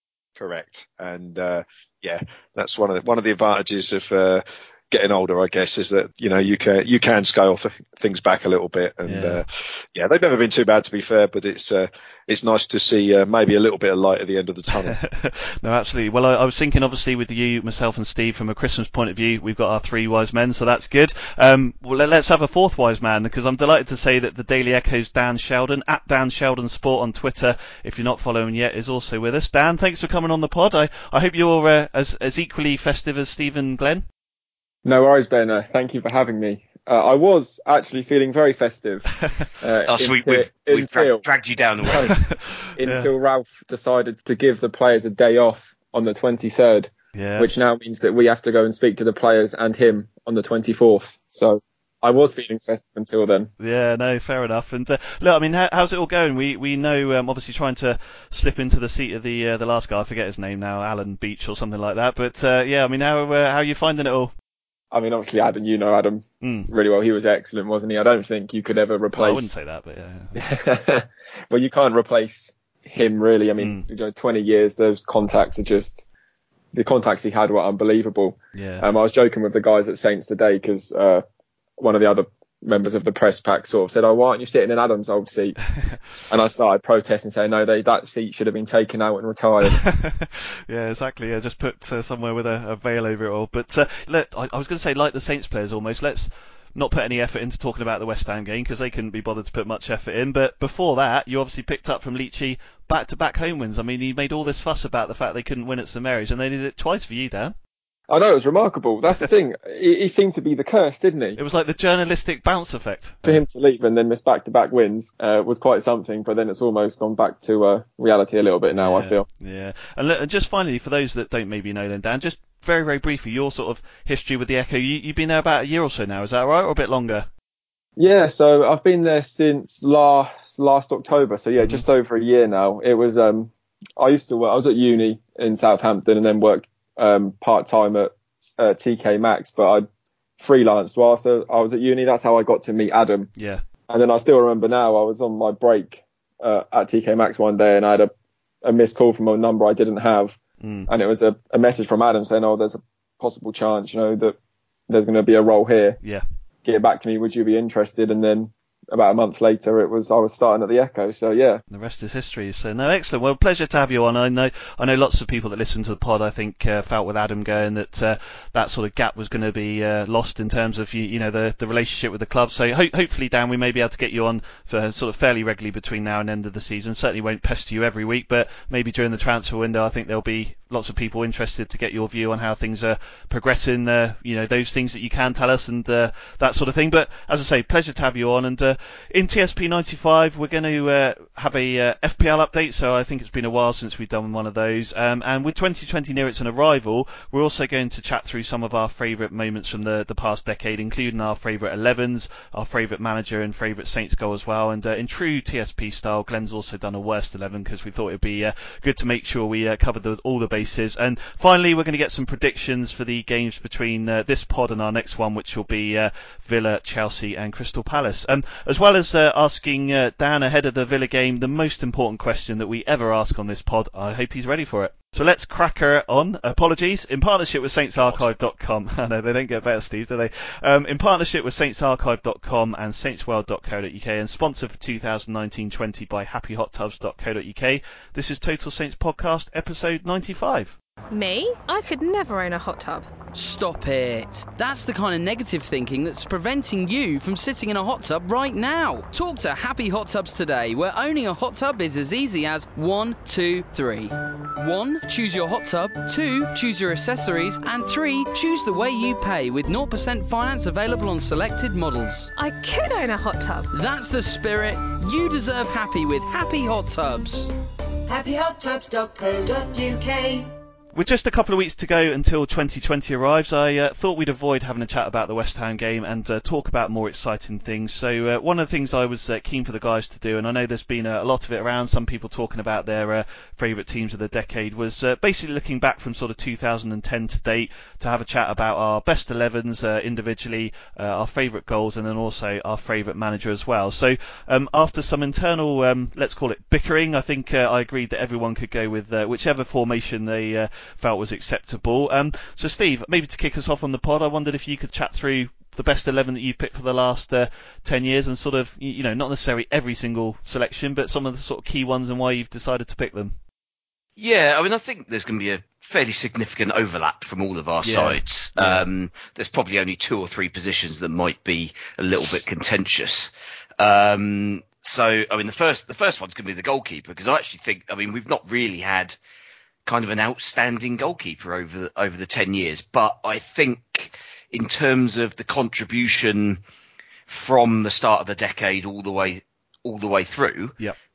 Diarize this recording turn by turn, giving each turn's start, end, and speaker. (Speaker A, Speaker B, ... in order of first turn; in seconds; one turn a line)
Speaker A: 0.4-15.0
Speaker B: 9.1-9.4
Speaker B: 14.8-34.1
Speaker C: 34.9-41.2
Speaker B: 39.2-39.5
Speaker D: 39.9-42.1
Speaker C: 41.9-42.1
Speaker B: 42.1-43.1
Speaker C: 42.8-53.5
Speaker B: 47.1-47.5
Speaker B: 53.6-64.3
Speaker C: 64.9-69.6
Speaker B: 66.4-66.7
Speaker B: 69.2-70.4
Speaker C: 70.4-76.0
Speaker B: 73.6-73.9
Speaker C: 76.7-81.2
Speaker B: 78.5-78.9
Speaker C: 81.8-85.6
Speaker C: 86.3-89.8
Speaker B: 89.7-107.6
Speaker C: 108.1-111.4
Speaker B: 111.4-113.4
Speaker C: 113.2-119.2
Speaker B: 118.7-127.3
Speaker C: 128.0-139.9
Speaker B: 131.6-131.8
Speaker C: 140.4-143.3
Speaker B: 143.4-143.6
Speaker C: 143.9-148.1
Speaker C: 148.6-150.4
Speaker B: 150.6-150.9
Speaker C: 150.9-154.3
Speaker C: 154.9-156.0
Speaker C: 156.7-161.6
Speaker B: 161.7-240.8
Speaker D: 228.0-228.3
Speaker E: 241.1-243.1
Speaker F: 243.3-262.3
Speaker E: 262.4-263.7
Speaker F: 263.7-267.5
Speaker G: 268.1-270.5
Speaker B: 270.9-313.4
Speaker D: 314.2-329.1
Speaker B: 317.8-318.9
Speaker D: 329.9-336.6
Speaker D: 337.3-340.8